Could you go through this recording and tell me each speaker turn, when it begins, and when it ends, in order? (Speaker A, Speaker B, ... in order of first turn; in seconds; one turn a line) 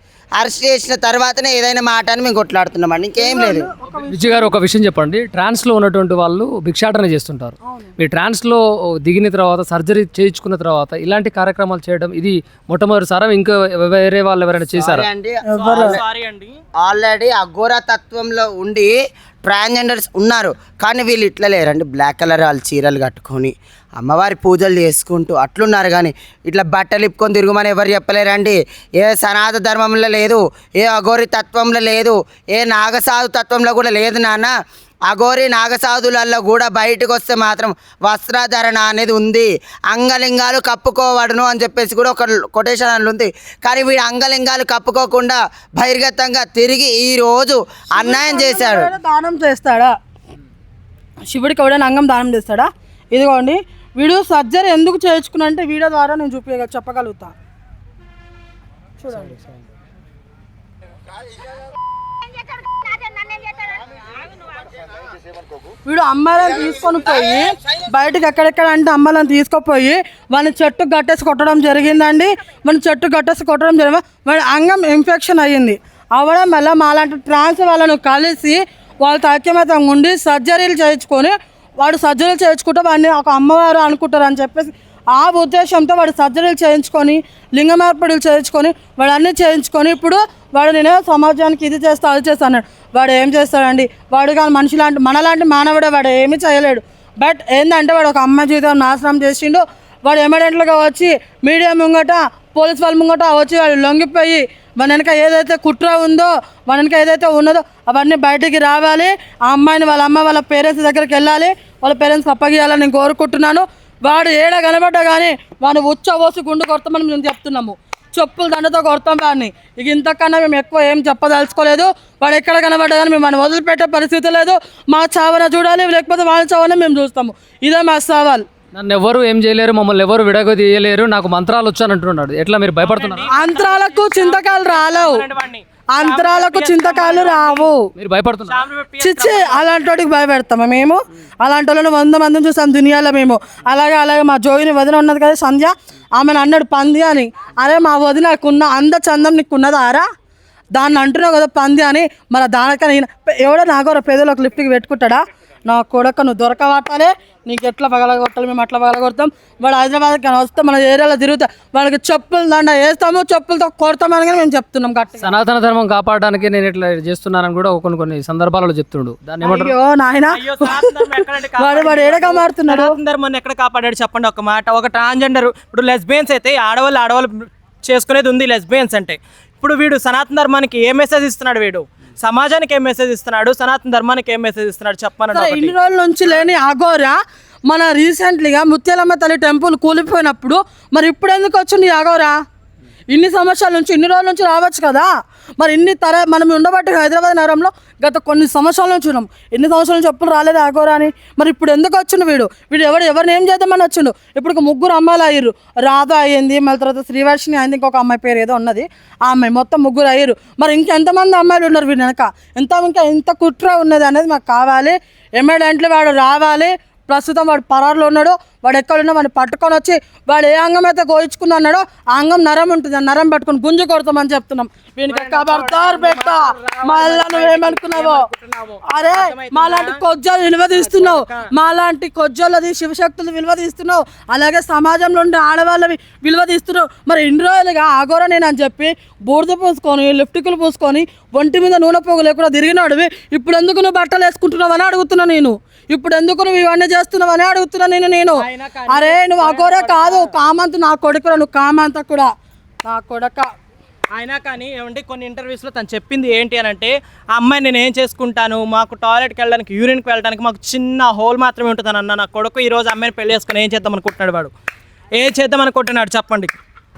Speaker A: 0.4-3.7
Speaker B: 3.2-4.5
Speaker C: 4.1-15.1
Speaker A: 14.8-16.0
Speaker B: 15.5-16.0
Speaker D: 15.6-16.5
Speaker A: 16.8-34.5
Speaker A: 35.1-48.9
Speaker B: 48.0-49.9
Speaker B: 51.3-57.3
Speaker B: 59.0-59.4
Speaker B: 65.9-128.4
Speaker C: 128.8-133.3
Speaker D: 132.8-137.7
Speaker B: 133.3-135.2
Speaker B: 135.9-137.9
Speaker C: 137.9-138.6
Speaker D: 138.5-139.7
Speaker B: 139.0-150.1
Speaker B: 150.8-165.2
Speaker C: 165.2-169.7
Speaker B: 169.4-173.0
Speaker D: 170.3-185.7
Speaker B: 185.3-192.4
Speaker B: 193.1-228.2
Speaker D: 225.1-230.0
Speaker B: 228.8-252.3
Speaker D: 230.7-231.5
Speaker D: 248.4-250.3
Speaker B: 252.8-253.5
Speaker D: 254.1-264.5
Speaker D: 265.1-266.5